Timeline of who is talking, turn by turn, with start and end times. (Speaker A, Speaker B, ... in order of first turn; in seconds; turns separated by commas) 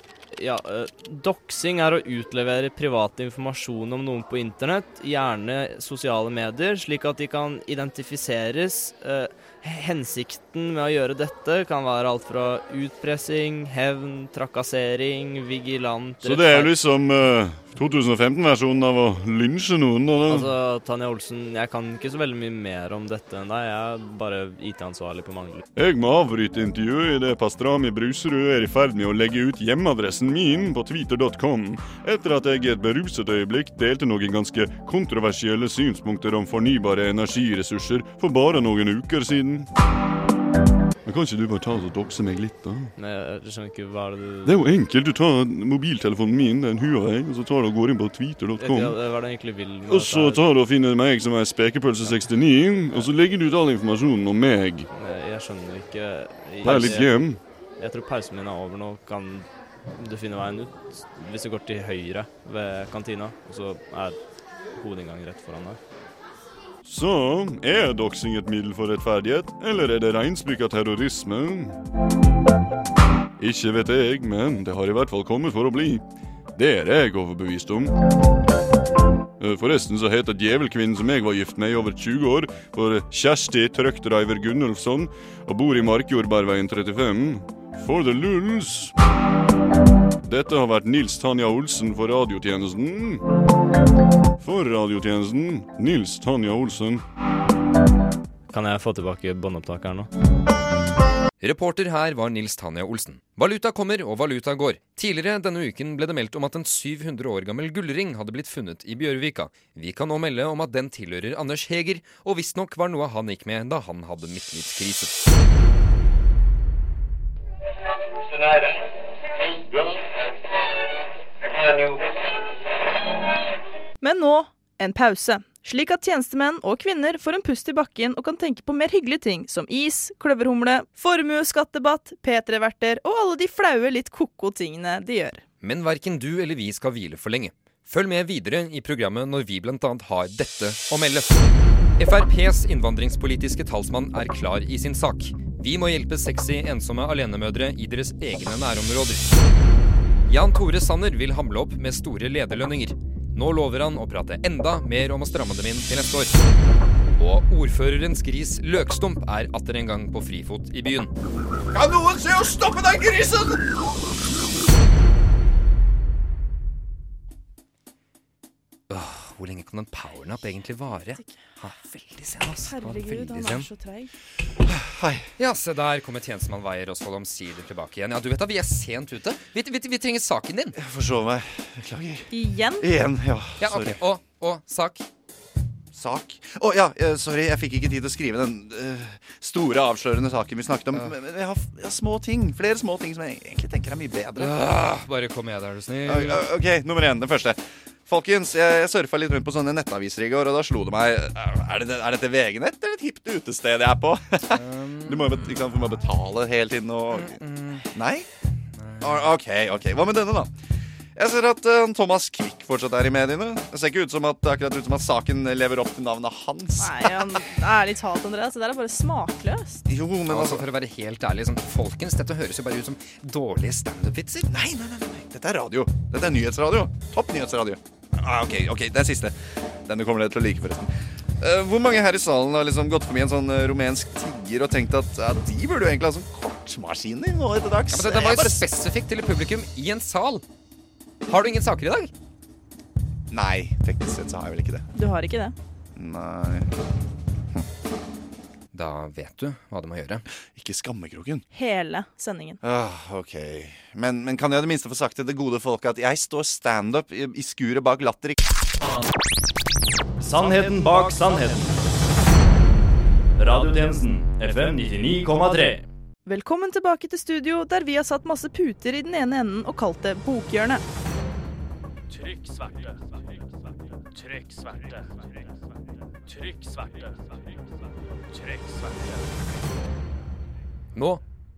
Speaker A: 0.3-16.7, Speaker B: 16.2-20.5, Speaker A: 20.2-25.6, Speaker B: 25.8-39.7, Speaker B: 41.0-42.9, Speaker A: 43.0-44.6, Speaker B: 44.5-49.0, Speaker A: 48.6-50.4, Speaker B: 49.9-54.9, Speaker A: 54.9-64.2, Speaker B: 56.6-57.4, Speaker A: 64.7-65.8, Speaker B: 66.8-71.8, Speaker B: 73.4-76.0, Speaker B: 76.5-77.9, Speaker B: 79.4-88.9, Speaker B: 90.2-93.2, Speaker B: 94.4-97.0, Speaker A: 98.5-100.1, Speaker C: 101.4-115.2, Speaker D: 124.0-135.4, Speaker C: 135.6-141.3, Speaker C: 142.0-149.3, Speaker C: 150.3-156.4, Speaker C: 157.2-161.1, Speaker E: 161.7-163.6, Speaker C: 168.9-173.7, Speaker D: 172.7-174.1, Speaker E: 174.7-175.3, Speaker C: 175.4-180.8, Speaker E: 180.8-182.3, Speaker D: 182.3-182.9, Speaker E: 182.8-184.0, Speaker C: 183.6-185.1, Speaker E: 185.9-194.7, Speaker C: 194.4-196.4, Speaker E: 196.1-208.3, Speaker C: 204.5-205.6, Speaker C: 207.1-207.9, Speaker C: 208.8-209.3, Speaker E: 209.0-210.5, Speaker E: 211.2-217.5, Speaker D: 216.8-219.8, Speaker E: 219.9-220.7, Speaker C: 220.3-224.5, Speaker E: 224.5-238.7, Speaker C: 237.9-240.4, Speaker C: 241.3-242.1, Speaker E: 243.3-244.9, Speaker D: 244.9-245.6, Speaker E: 246.0-246.7, Speaker C: 248.7-250.2, Speaker E: 250.4-251.4, Speaker D: 251.5-252.6, Speaker E: 252.6-258.4, Speaker F: 260.2-261.7, Speaker F: 263.4-265.8, Speaker D: 266.2-270.8, Speaker G: 272.1-272.9, Speaker G: 274.2-275.0, Speaker G: 276.3-277.1, Speaker G: 278.3-279.2, Speaker C: 280.9-281.2